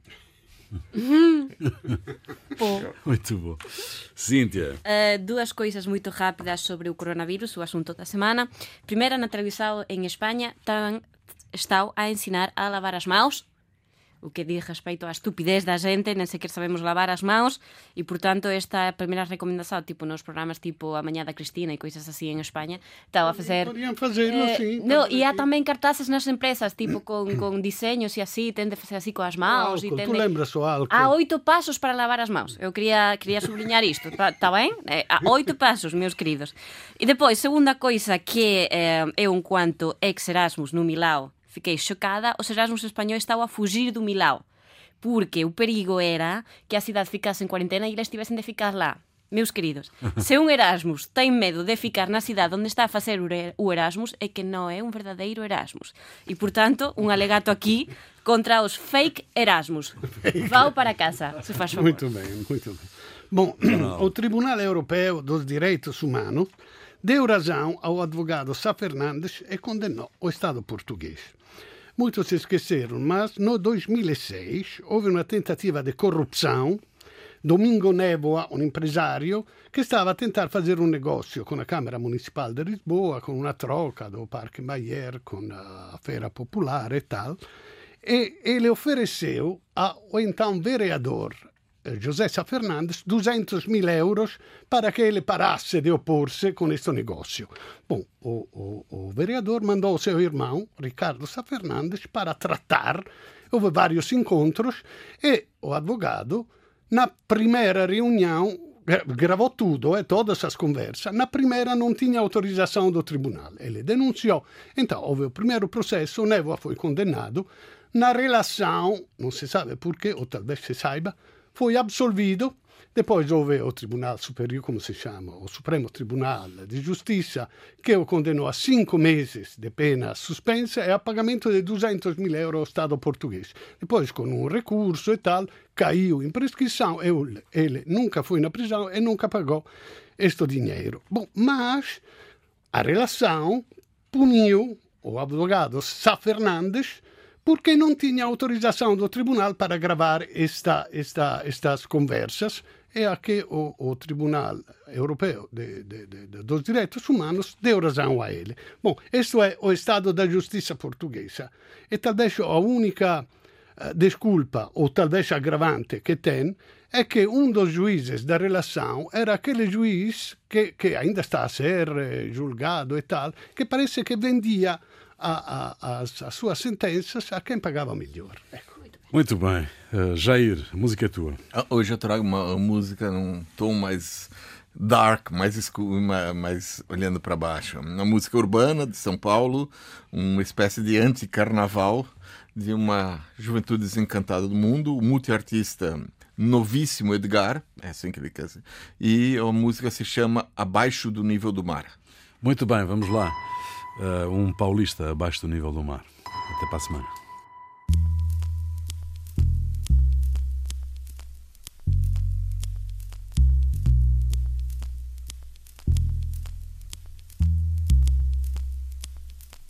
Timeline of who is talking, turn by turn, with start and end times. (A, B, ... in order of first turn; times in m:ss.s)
0:01.0-0:01.5 A
0:02.6-0:02.9 A
0:03.0-0:04.8 B
0:04.8-0:13.4 A
0:14.2-0:23.7 A
0:23.3-0:25.4 C
0:24.3-0:30.2 A
0:29.5-0:31.1 C
0:30.9-0:44.4 A
0:45.0-1:02.0 A
1:01.7-1:06.5 C
1:03.6-1:04.1 B
1:07.0-1:11.4 C
1:12.0-1:16.8 C
1:17.4-1:27.4 C
1:28.0-2:19.7 C
2:20.2-2:22.0 C
2:22.7-2:43.3 C
2:43.8-2:58.9 C
2:59.1-3:01.4 B
3:01.5-3:22.0 D
3:22.4-3:23.4 B
3:24.0-3:27.1 B